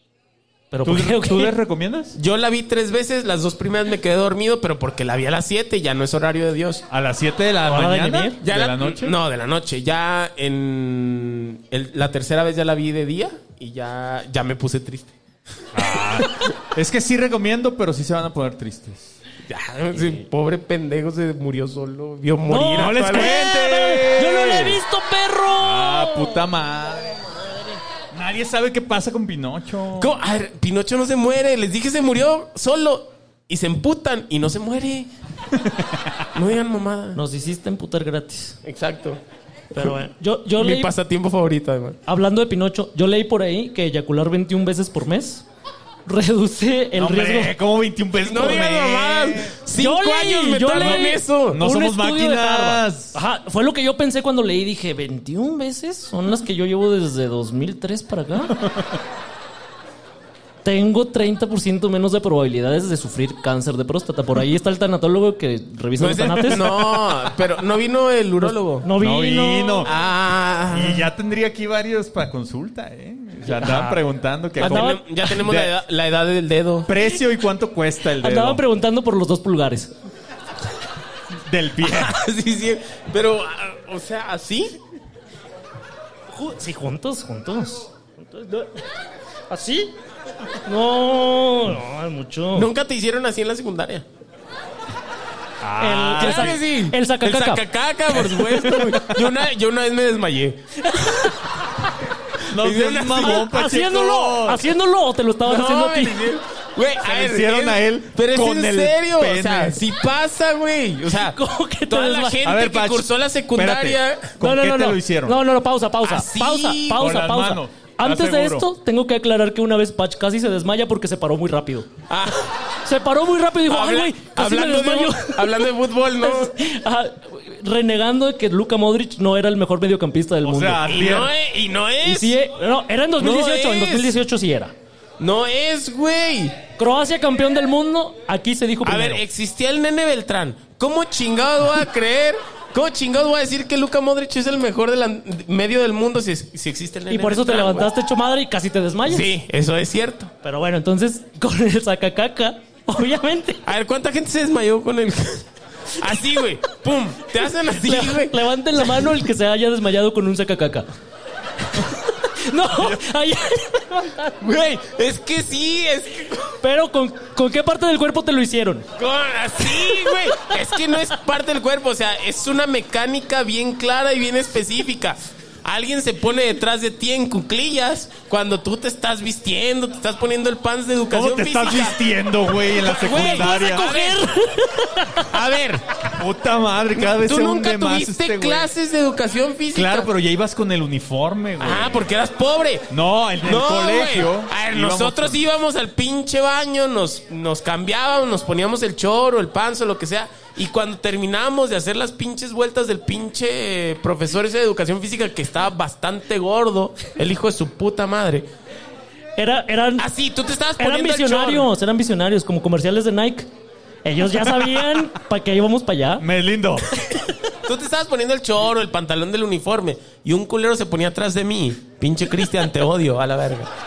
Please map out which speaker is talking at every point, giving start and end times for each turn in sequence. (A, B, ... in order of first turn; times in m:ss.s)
0:00.7-0:01.6 A
0:00.8-0:02.2 B
0:02.1-0:06.9 C
0:06.9-0:09.1 B
0:07.6-0:08.4 A
0:08.4-0:15.1 C
0:15.7-0:19.1 B
0:15.8-0:16.3 C
0:19.5-0:23.5 C
0:22.4-0:26.4 A
0:22.8-0:24.8 B
0:25.6-0:27.3 B
0:28.1-0:30.2 B
0:30.0-0:35.1 C
0:35.6-0:35.9 B
0:36.3-0:37.2 C
0:37.1-0:38.6 A
0:38.6-0:39.2 C
0:39.7-0:40.9 A
0:40.6-0:42.0 C
0:42.1-0:45.4 A
0:46.0-0:47.5 A
0:46.9-0:49.6 B
0:48.2-0:51.6 C
0:49.7-0:58.6 A
0:50.8-0:53.2 B
0:58.5-0:58.9 B
1:00.6-1:06.6 A
1:06.0-1:08.9 C
1:06.4-1:07.0 B
1:08.4-1:09.9 A
1:09.0-1:09.9 B
1:09.8-1:11.1 C
1:10.7-1:15.7 B
1:13.6-1:14.0 A
1:14.6-1:15.0 A
1:14.6-1:16.9 C
1:16.9-1:18.6 B
1:18.2-1:19.9 A
1:21.4-1:22.2 B
1:21.8-1:24.8 C
1:26.3-1:28.8 A
1:29.5-1:29.9 A
1:30.6-1:32.7 A
1:32.5-1:34.0 C
1:35.6-1:36.6 B
1:35.8-1:37.6 A
1:36.2-1:41.4 C
1:38.3-1:39.2 B
1:42.5-1:44.6 B
1:42.6-1:43.4 C
1:43.2-1:46.2 A
1:45.4-1:54.3 C
1:47.0-1:49.8 B
1:51.2-1:52.4 A
1:52.4-1:55.4 B
1:54.4-2:01.9 A
1:56.0-1:57.1 C
1:57.0-1:58.6 B
2:02.1-2:02.5 C
2:02.8-2:05.6 A
2:03.7-2:06.5 C
2:06.2-2:10.8 A
2:10.4-2:11.3 B
2:10.9-2:12.4 C
2:12.0-2:14.7 A
2:13.2-2:14.1 C
2:15.2-2:16.6 C
2:16.8-2:19.2 A
2:18.8-2:27.9 C
2:27.1-2:29.3 A
2:29.1-2:30.3 C
2:30.4-2:33.6 A
2:33.6-2:39.0 C
2:37.8-2:40.9 A
2:41.7-2:44.3 A
2:44.4-2:46.5 C
2:46.6-2:48.9 A
2:49.0-3:02.0 C
2:49.6-2:50.2 A
3:01.1-3:03.9 B
3:02.7-3:04.3 C
3:03.1-3:05.3 A
3:05.2-3:06.1 C
3:06.1-3:08.7 B
3:06.9-3:10.1 C
3:09.7-3:12.1 B
3:11.6-3:12.9 C
3:12.9-3:15.4 B
3:13.4-3:28.5 C
3:29.4-3:30.0 A
3:30.0-3:31.7 C
3:30.8-3:33.5 A
3:34.0-3:36.2 A
3:36.2-3:37.0 B
3:37.6-3:43.7 C